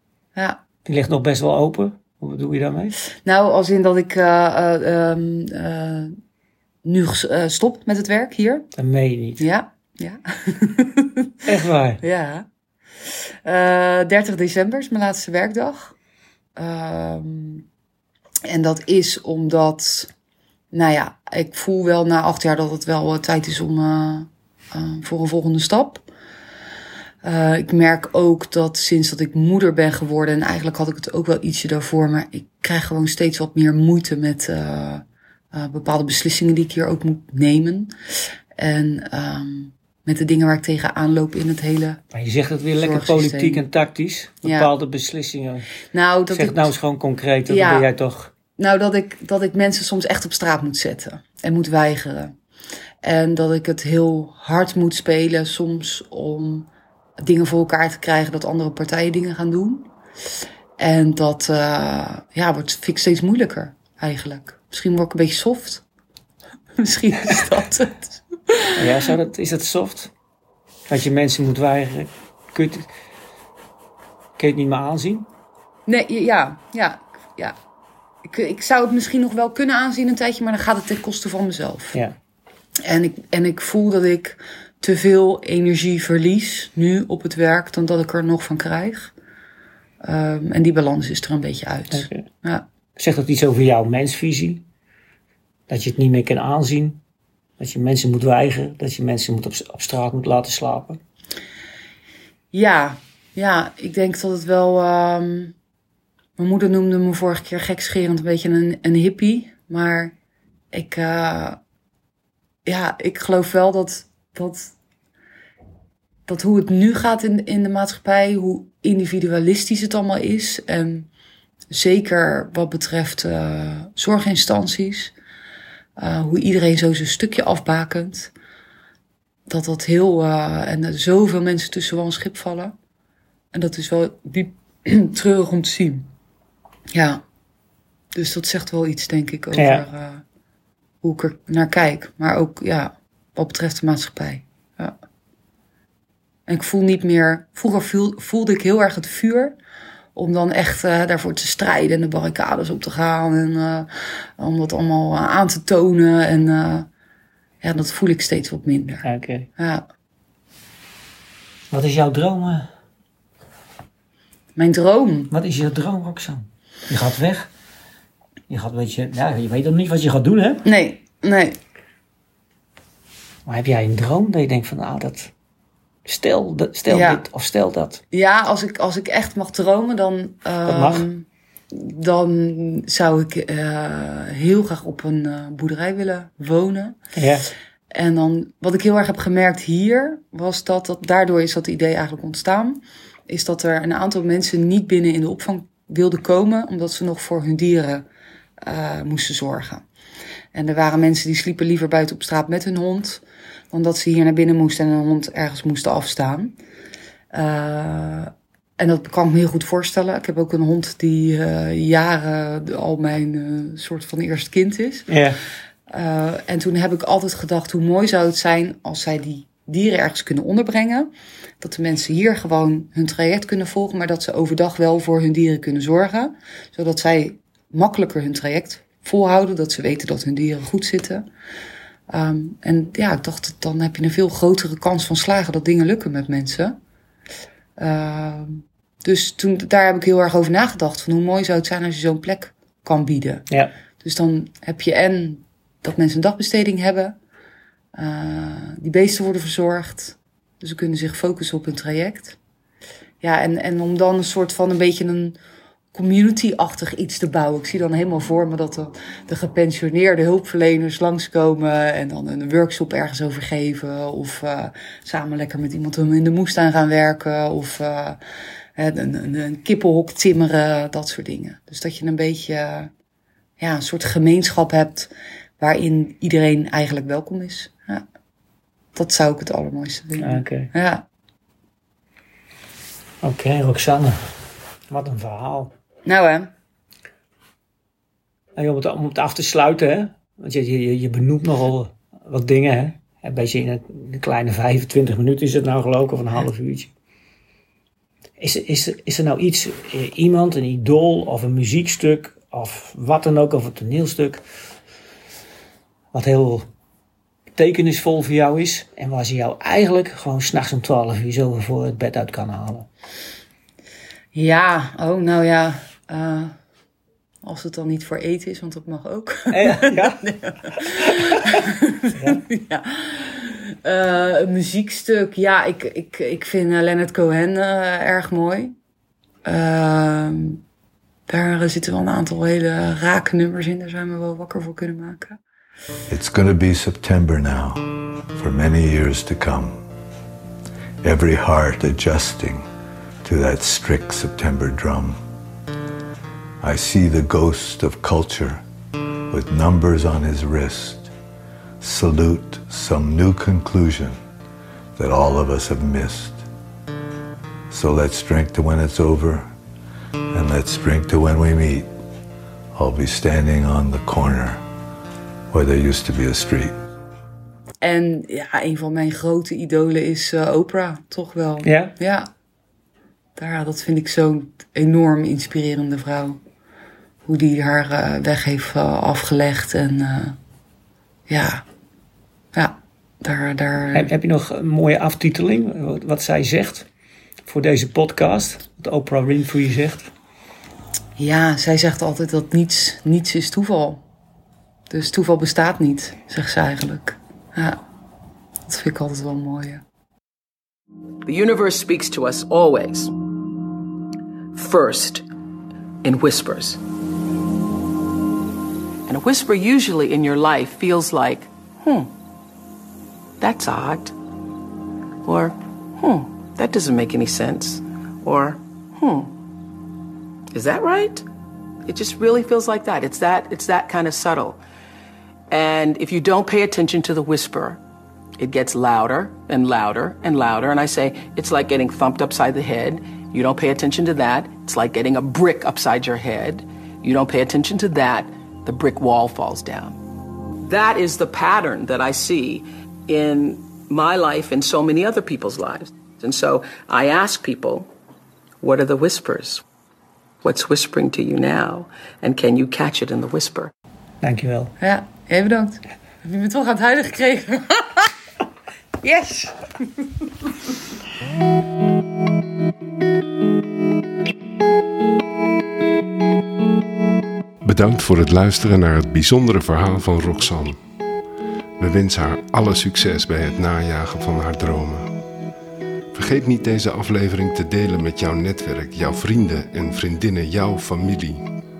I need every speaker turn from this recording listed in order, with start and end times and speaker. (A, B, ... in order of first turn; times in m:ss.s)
0:00.3-0:00.6 A
0:00.8-0:02.9 B
0:03.2-0:06.2 A
0:06.8-0:08.7 A
0:08.8-0:09.4 B
0:09.4-0:11.4 A
0:11.4-0:12.0 B
0:12.0-0:12.4 A
0:13.4-0:16.0 A
0:16.6-0:17.6 A
0:18.4-0:20.1 A
0:20.7-0:26.0 A
0:27.2-0:37.9 A
0:38.6-0:42.0 A
0:42.1-0:45.7 B
0:42.8-0:43.6 A
0:44.4-0:44.7 A
0:45.9-0:46.7 A
0:46.3-0:48.3 B
0:47.5-0:47.9 A
0:48.6-0:52.3 A
0:53.0-0:56.7 A
0:57.2-0:59.9 A
1:00.8-1:05.8 A
1:06.8-1:09.0 A
1:08.8-1:10.1 B
1:10.9-1:12.9 B
1:14.4-1:15.3 B
1:15.8-1:17.6 A
1:18.2-1:22.0 A
1:22.8-1:29.1 A
1:30.0-1:32.6 A
1:31.9-1:32.3 B
1:33.0-1:34.6 B
1:35.7-1:37.0 B
1:37.6-1:41.0 B
1:42.5-1:45.5 A
1:46.4-1:50.1 A
1:50.7-1:51.6 A
1:52.6-1:54.7 A
1:56.3-2:01.1 A
2:01.7-2:05.1 A
2:06.0-2:08.3 A
2:09.5-2:12.7 A
2:13.5-2:16.1 A
2:16.9-2:17.2 A
2:18.1-2:20.2 A
2:19.5-2:19.8 B
2:21.0-2:25.0 A
2:26.5-2:29.5 A
2:30.1-2:36.9 A
2:37.6-2:39.8 A
2:39.0-2:39.5 B
2:41.7-2:42.7 B
2:44.6-2:45.3 A
2:45.3-2:47.5 B
2:48.5-2:50.6 B
2:50.6-2:51.6 A
2:53.4-2:55.3 B
2:56.0-2:58.0 B
2:56.9-2:57.2 A
2:58.1-3:07.0 A
3:00.6-3:01.1 B
3:07.1-3:07.4 B
3:07.9-3:18.0 A
3:18.6-3:19.8 A
3:20.5-3:26.5 A
3:27.3-3:35.2 A
3:35.1-3:35.4 B
3:35.9-3:41.1 A
3:41.6-3:51.2 A
3:52.1-3:56.8 A
3:57.8-4:03.5 A
4:04.0-4:07.2 A
4:08.0-4:12.4 A
4:13.2-4:15.4 A
4:15.9-4:28.2 A
4:28.8-4:32.9 A
4:33.6-4:38.0 A
4:38.9-4:41.0 A
4:40.2-4:40.7 B
4:43.2-4:44.2 B
4:44.9-4:45.7 B
4:46.0-4:46.5 A
4:48.6-4:56.9 B
4:58.4-5:04.4 B
5:06.1-5:06.7 B
5:07.6-5:12.9 B
5:14.3-5:16.6 A
5:17.4-5:28.7 A
5:19.5-5:21.6 B
5:22.2-5:22.4 B
5:29.4-5:30.6 A
5:31.3-5:35.4 A
5:36.1-5:39.8 C
5:41.0-5:42.6 C
5:43.2-5:45.2 C
5:46.6-5:48.6 C
5:49.3-5:51.1 C
5:51.8-5:54.2 C
5:55.0-5:56.4 C
5:57.7-5:59.5 C
6:00.3-6:01.9 C
6:02.7-6:04.6 C
6:05.5-6:06.7 C
6:07.8-6:12.3 A
6:11.6-6:11.9 B
6:13.4-6:16.4 A
6:17.2-6:20.4 A
6:21.3-6:21.6 A
6:22.5-6:24.1 A
6:23.9-6:26.9 B
6:27.4-6:30.1 B
6:31.2-6:34.0 A
6:34.9-6:37.8 A
6:38.7-6:39.8 A
6:41.2-6:43.1 D
6:44.5-6:45.2 D
6:46.0-6:46.8 D
6:49.1-6:52.1 D
6:53.4-6:54.1 D
6:55.2-6:59.3 D
7:00.5-7:01.2 D
7:01.8-7:04.6 D
7:05.5-7:07.8 D
7:08.4-7:20.0 D
7:20.7-7:27.9 D
7:28.6-7:29.6 D
7:30.4-7:33.7 D
7:34.2-7:34.7 B
7:34.8-7:38.1 A
7:39.0-7:39.6 A
7:47.6-7:50.8 E
7:51.8-7:55.1 E
7:56.1-8:01.4 E